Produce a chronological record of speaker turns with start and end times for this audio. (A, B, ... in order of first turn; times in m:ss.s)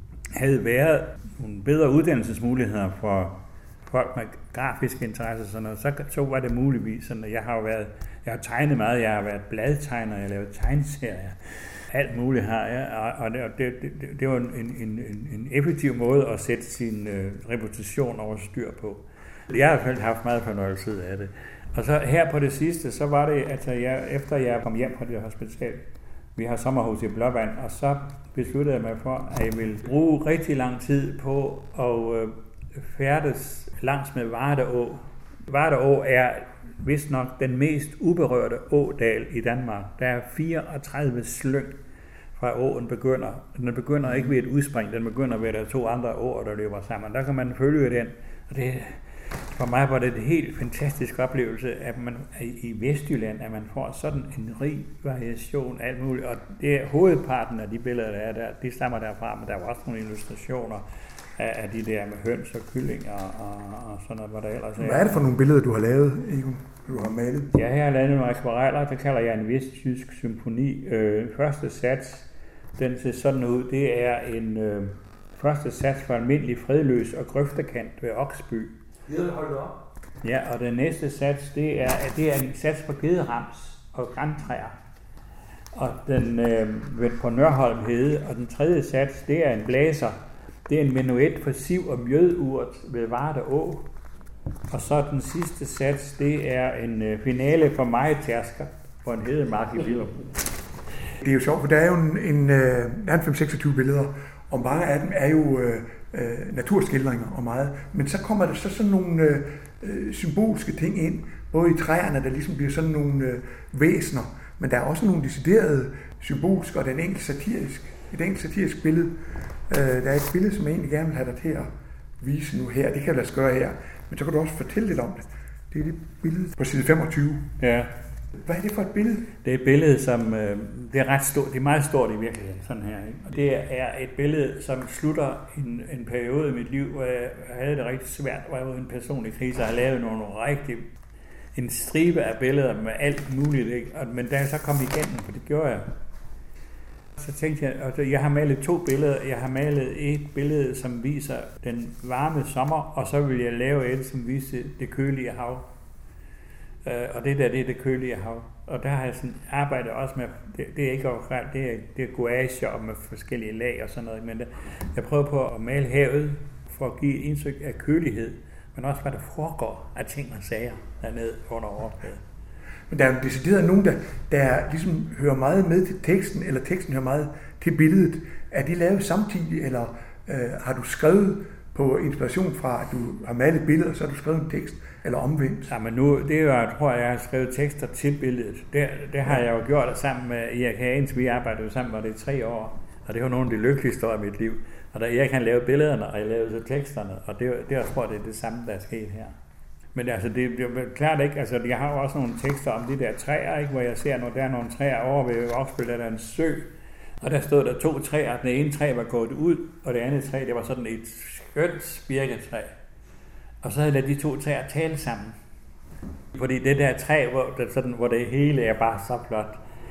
0:00.3-0:25.8 A
0:26.4-0:41.8 A
0:42.3-1:00.8 A
1:01.4-1:05.3 A
1:04.8-1:07.5 B
1:07.5-1:18.7 A
1:19.2-1:19.6 B
1:20.2-1:24.7 A
1:25.7-1:30.2 A
1:30.7-1:33.9 A
1:34.7-1:40.3 A
1:41.2-2:07.5 B
2:07.6-2:07.9 A
2:08.4-2:09.3 B
2:09.4-2:20.8 A
2:21.5-2:25.9 A
2:27.2-2:35.7 A
2:36.8-2:52.2 A
2:52.9-3:05.7 B
3:05.7-3:19.3 A
3:19.9-3:26.7 A
3:27.2-3:32.7 A
3:33.6-3:35.3 A
3:36.3-3:39.6 A